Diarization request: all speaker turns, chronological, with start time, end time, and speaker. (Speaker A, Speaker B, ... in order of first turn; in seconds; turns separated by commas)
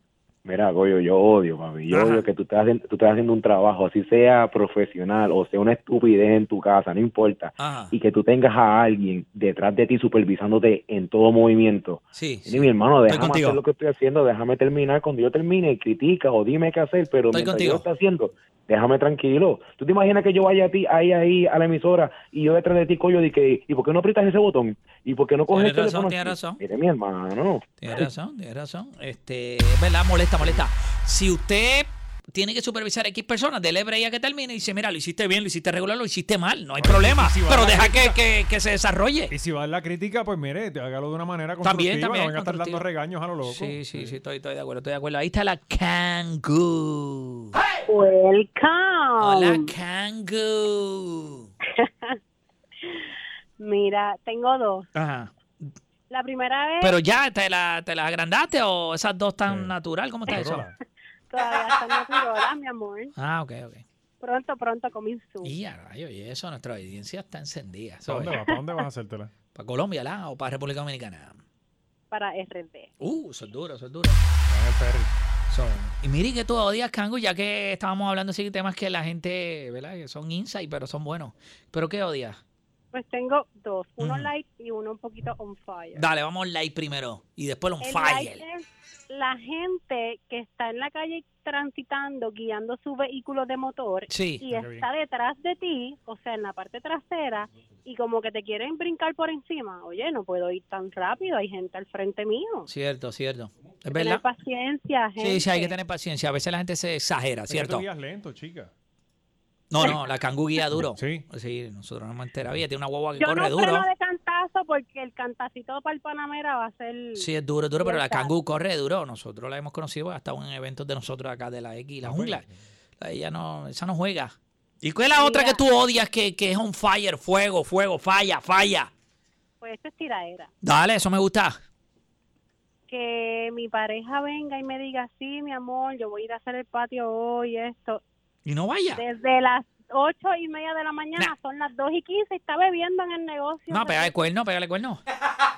Speaker A: 0.4-28.1, Speaker B: 1.9-2.2, Speaker B: 7.6-7.9, Speaker B: 12.1-13.6, Speaker B: 17.3-17.8, Speaker B: 25.5-26.6, Speaker B: 27.8-39.3, Speaker C: 36.8-38.2, Speaker C: 39.3-44.1, Speaker B: 41.6-42.8, Speaker B: 43.4-47.5, Speaker D: 47.9-49.6, Speaker B: 49.2-51.5, Speaker D: 51.8-52.1, Speaker D: 53.6-54.9, Speaker B: 54.9-55.7, Speaker D: 56.1-57.0, Speaker B: 56.8-60.7, Speaker C: 59.5-59.7, Speaker C: 60.3-60.7, Speaker D: 61.3-63.1, Speaker B: 63.1-63.8, Speaker D: 64.2-65.5, Speaker B: 65.4-68.3, Speaker C: 68.0-69.3, Speaker B: 69.5-71.4, Speaker D: 72.1-72.9, Speaker B: 73.0-74.2, Speaker C: 74.5-75.1, Speaker B: 75.5-82.4, Speaker D: 82.9-86.0, Speaker B: 84.0-84.3, Speaker B: 85.9-88.4, Speaker D: 87.8-102.7, Speaker B: 94.1-94.4, Speaker C: 94.5-94.9, Speaker B: 102.7-104.2, Speaker D: 103.9-105.7, Speaker B: 105.2-107.8, Speaker C: 107.5-108.7, Speaker B: 109.7-113.8, Speaker C: 110.8-111.2, Speaker D: 113.2-117.3, Speaker B: 117.2-122.4, Speaker D: 117.8-118.3, Speaker C: 122.0-122.5, Speaker B: 123.0-128.9, Speaker D: 125.2-125.6, Speaker D: 129.6-130.5, Speaker B: 130.6-131.6, Speaker D: 132.9-138.0, Speaker B: 138.4-139.0, Speaker D: 138.9-144.1, Speaker B: 143.7-145.0